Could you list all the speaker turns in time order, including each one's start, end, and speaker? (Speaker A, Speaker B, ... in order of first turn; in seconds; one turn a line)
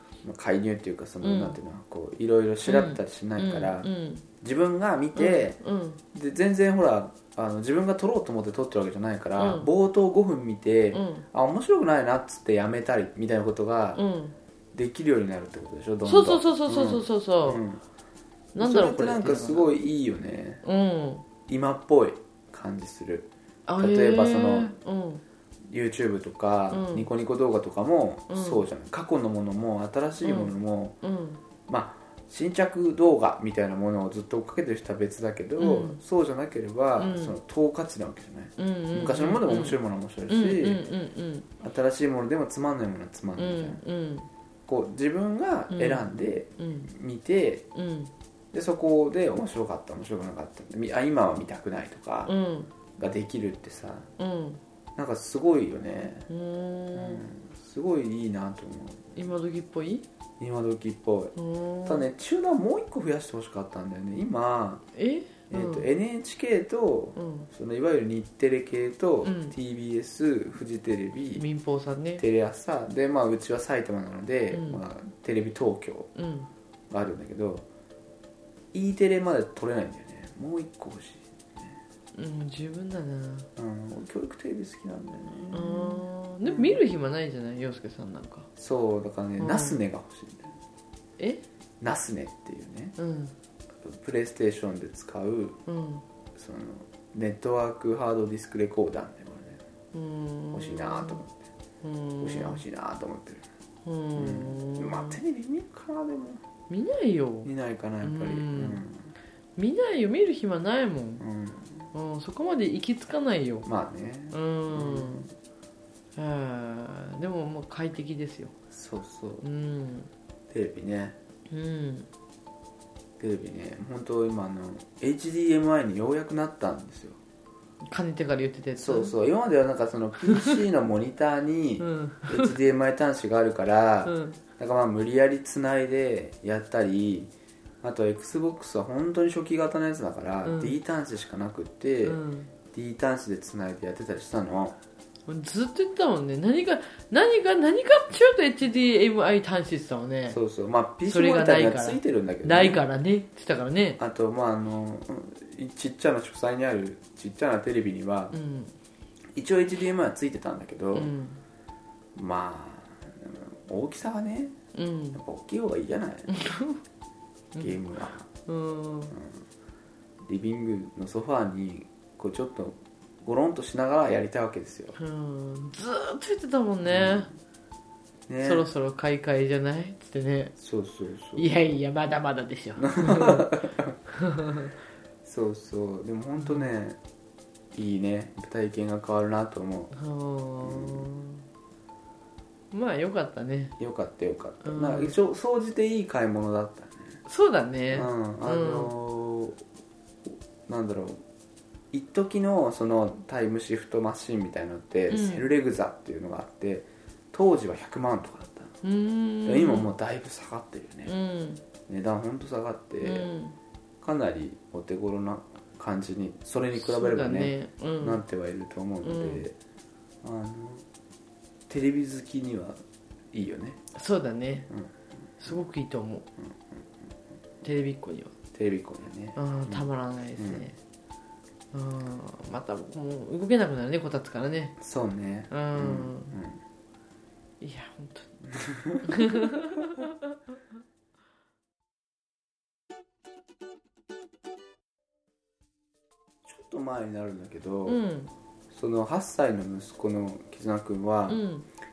Speaker A: 0.2-3.9
Speaker B: 1.2-1.6
Speaker B: 2.7-4.2
Speaker A: 4.4-5.6
Speaker B: 5.2-6.0
Speaker A: 6.1-14.0
Speaker B: 9.4-9.7
Speaker B: 10.9-11.2
Speaker B: 13.9-14.3
Speaker A: 14.7-17.8
Speaker B: 16.0-17.6
Speaker B: 18.5-19.7
Speaker A: 18.6-20.6
Speaker B: 20.6-21.2
Speaker A: 21.5-24.7
Speaker B: 23.7-25.2
Speaker A: 25.7-31.0
Speaker B: 26.7-27.1
Speaker B: 28.3-28.6
Speaker B: 30.2-31.4
Speaker A: 31.7-40.8
Speaker B: 35.6-36.0
Speaker B: 37.0-37.4
Speaker B: 38.6-39.8
Speaker B: 40.3-41.5
Speaker A: 41.6-43.8
Speaker B: 43.4-44.3
Speaker A: 44.7-47.7
Speaker B: 45.7-46.1
Speaker B: 46.6-46.9
Speaker B: 47.7-48.1
Speaker A: 48.5-52.3
Speaker B: 52.2-52.7
Speaker A: 53.0-54.1
Speaker B: 54.2-54.6
Speaker A: 55.0-56.3
Speaker B: 56.3-57.2
Speaker A: 56.9-59.2
Speaker B: 59.1-60.0
Speaker A: 60.4-61.3
Speaker B: 61.4-62.1
Speaker A: 61.8-64.8
Speaker B: 65.0-65.9
Speaker A: 65.5-71.4
Speaker B: 67.2-67.5
Speaker B: 69.2-69.5
Speaker B: 71.4-72.2
Speaker A: 72.2-76.1
Speaker B: 74.5-74.8
Speaker B: 76.2-76.5
Speaker A: 76.9-77.7
Speaker A: 78.7-81.8
Speaker B: 82.1-83.5
Speaker A: 83.5-86.8
Speaker B: 85.5-88.5
Speaker A: 88.6-90.6
Speaker B: 89.4-89.8
Speaker B: 91.2-91.4
Speaker A: 91.8-92.9
Speaker B: 93.0-93.3
Speaker A: 93.8-95.6
Speaker B: 95.7-96.0
Speaker A: 96.3-99.6
Speaker B: 99.9-101.2
Speaker A: 100.5-101.4
Speaker B: 101.8-102.6
Speaker A: 102.2-103.4
Speaker B: 103.8-105.2
Speaker A: 104.2-106.4
Speaker B: 106.7-107.5
Speaker A: 107.4-109.0
Speaker B: 108.0-108.8
Speaker B: 109.6-111.2
Speaker A: 111.2-111.9
Speaker B: 111.9-113.7
Speaker A: 113.6-115.3
Speaker B: 114.3-115.3
Speaker B: 116.2-118.5
Speaker A: 118.7-119.4
Speaker B: 119.4-120.1
Speaker A: 120.5-121.2
Speaker B: 121.5-122.1
Speaker A: 123.2-127.2
Speaker B: 127.9-129.1
Speaker A: 128.8-142.2
Speaker B: 130.2-130.6
Speaker B: 131.8-132.5
Speaker B: 134.0-134.4
Speaker B: 140.4-140.7
Speaker B: 142.0-142.5
Speaker A: 142.7-144.8
Speaker B: 145.3-150.4
Speaker A: 150.3-152.8
Speaker B: 151.1-154.0
Speaker A: 154.0-158.3
Speaker B: 158.3-158.7
Speaker A: 159.3-161.1
Speaker B: 160.9-161.4
Speaker A: 162.1-164.6
Speaker B: 164.7-165.2
Speaker A: 165.1-166.4
Speaker B: 166.3-166.8
Speaker A: 167.6-168.3
Speaker B: 168.4-169.2
Speaker A: 169.1-169.4
Speaker A: 170.2-174.9
Speaker B: 175.0-177.3
Speaker A: 176.8-177.3
Speaker A: 178.3-178.7
Speaker B: 178.4-180.5
Speaker A: 180.6-181.5
Speaker B: 181.3-183.5
Speaker A: 182.8-183.9
Speaker B: 184.2-184.7
Speaker A: 185.2-187.0
Speaker B: 186.4-186.7
Speaker A: 187.7-189.9
Speaker B: 189.9-191.4
Speaker A: 190.6-191.1
Speaker B: 192.7-193.8
Speaker A: 193.8-197.2
Speaker B: 194.6-195.2
Speaker B: 197.2-198.9
Speaker A: 197.9-199.6
Speaker A: 200.7-201.2
Speaker A: 201.9-208.7
Speaker B: 205.1-205.4
Speaker B: 208.8-209.9
Speaker A: 209.4-211.1
Speaker B: 211.1-211.6
Speaker A: 211.9-213.3
Speaker B: 213.0-213.6
Speaker A: 214.0-219.5
Speaker B: 216.7-218.2
Speaker B: 219.0-219.4
Speaker A: 220.2-220.8
Speaker A: 221.7-223.8
Speaker B: 223.9-224.7
Speaker B: 225.4-226.2
Speaker B: 227.6-228.3
Speaker A: 228.5-230.7
Speaker B: 229.3-230.8
Speaker B: 231.7-234.8
Speaker A: 234.8-236.6
Speaker B: 235.5-236.3
Speaker B: 237.6-238.4
Speaker A: 238.5-239.6
Speaker B: 239.0-240.1
Speaker A: 246.4-248.0
Speaker B: 247.8-248.3
Speaker A: 248.7-251.4
Speaker B: 251.3-251.7